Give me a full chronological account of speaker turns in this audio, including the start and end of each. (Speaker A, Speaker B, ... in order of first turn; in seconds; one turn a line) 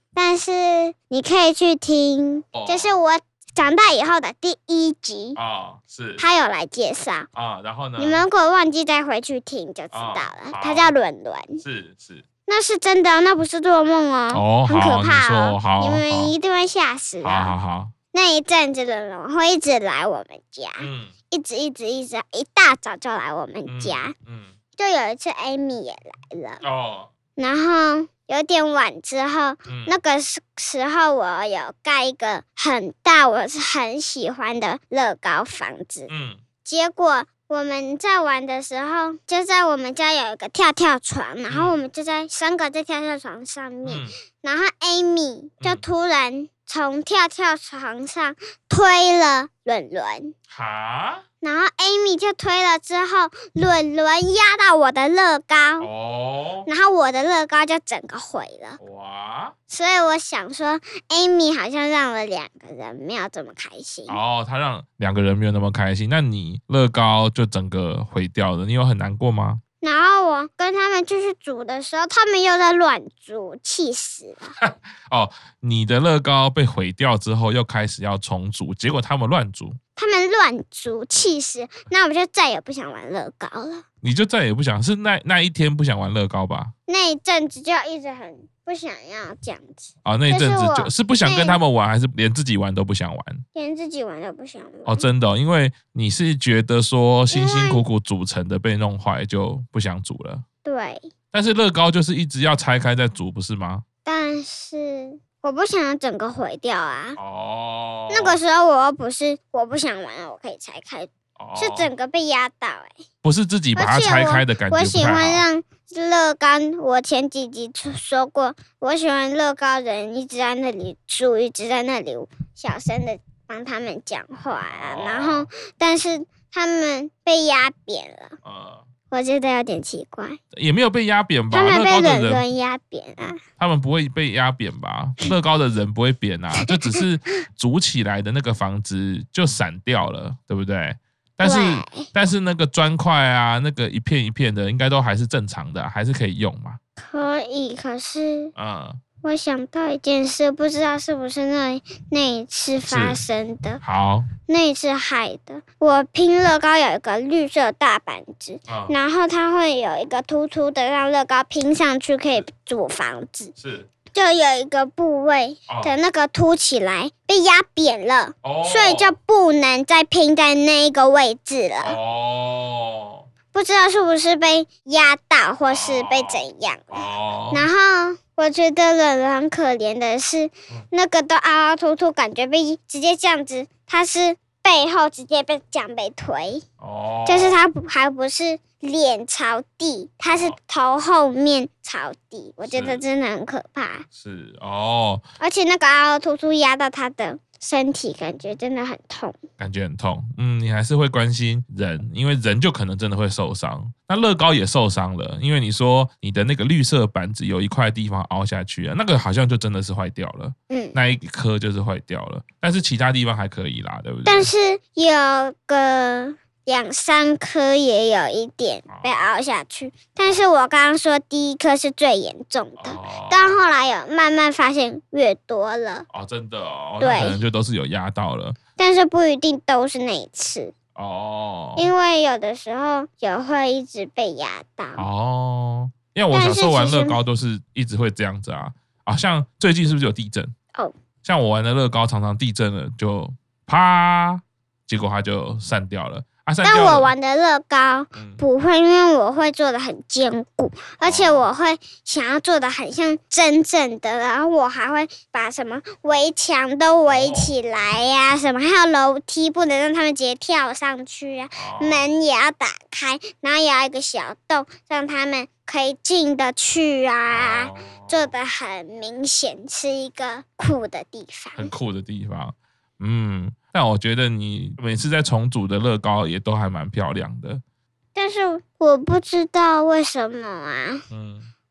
Speaker A: 0.1-5.4
Speaker B: 2.5-2.9
Speaker B: 5.3-6.2
Speaker A: 6.2-7.3
Speaker B: 7.3-8.2
Speaker A: 8.0-11.6
Speaker B: 9.9-10.9
Speaker B: 11.6-12.2
Speaker A: 12.5-17.5
Speaker B: 14.3-16.3
Speaker B: 17.2-17.9
Speaker A: 18.1-24.1
Speaker B: 20.8-21.1
Speaker B: 23.7-24.5
Speaker A: 24.8-26.6
Speaker B: 26.6-27.1
Speaker A: 27.4-36.1
Speaker B: 29.7-29.9
Speaker B: 36.1-36.4
Speaker A: 36.6-50.3
Speaker B: 41.5-41.7
Speaker B: 43.8-44.1
Speaker B: 50.5-51.2
Speaker A: 51.4-55.9
Speaker B: 55.8-56.7
Speaker A: 56.7-58.8
Speaker B: 58.8-59.5
Speaker A: 59.7-64.2
Speaker B: 64.1-69.6
Speaker A: 69.8-74.5
Speaker B: 74.6-79.8
Speaker A: 80.0-83.8
Speaker B: 84.0-86.7
Speaker A: 86.9-91.6
Speaker B: 90.0-93.4
Speaker A: 93.5-95.0
Speaker B: 94.8-100.4
Speaker A: 97.3-97.8
Speaker A: 100.6-101.1
Speaker B: 101.3-103.8
Speaker A: 104.0-107.2
Speaker B: 107.2-108.4
Speaker A: 108.1-113.0
Speaker B: 111.4-111.9
Speaker B: 113.2-115.4
Speaker A: 113.8-128.3
Speaker B: 124.7-125.5
Speaker B: 128.4-128.8
Speaker A: 129.1-130.4
Speaker B: 130.5-132.4
Speaker A: 131.5-133.4
Speaker B: 133.6-146.8
Speaker A: 136.6-137.0
Speaker A: 141.4-142.1
Speaker A: 147.0-148.5
Speaker B: 148.5-149.0
Speaker A: 149.2-153.8
Speaker B: 152.9-153.2
Speaker B: 153.8-154.3
Speaker A: 154.4-163.6
Speaker B: 158.7-158.9
Speaker B: 163.6-163.9
Speaker A: 164.1-171.9
Speaker B: 165.7-166.0
Speaker B: 168.4-169.2
Speaker B: 171.8-173.2
Speaker A: 173.5-186.6
Speaker B: 175.7-177.7
Speaker B: 186.8-187.6
Speaker A: 187.2-194.0
Speaker B: 190.3-190.6
Speaker B: 192.7-193.0
Speaker B: 194.1-195.2
Speaker A: 195.4-199.4
Speaker B: 199.6-214.5
Speaker A: 210.7-210.9
Speaker A: 214.2-226.1
Speaker B: 218.9-219.2
Speaker B: 222.8-223.6
Speaker B: 226.1-228.6
Speaker A: 227.0-227.4
Speaker A: 228.8-230.7
Speaker B: 230.9-231.9
Speaker A: 231.8-235.1
Speaker B: 235.0-240.5
Speaker A: 236.3-237.2
Speaker B: 241.2-247.1
Speaker A: 246.6-271.7
Speaker B: 248.2-248.4
Speaker B: 251.0-251.5
Speaker B: 257.1-257.5
Speaker B: 261.5-262.1
Speaker B: 267.3-268.3
Speaker B: 271.6-277.6
Speaker A: 278.1-281.0
Speaker B: 281.1-281.5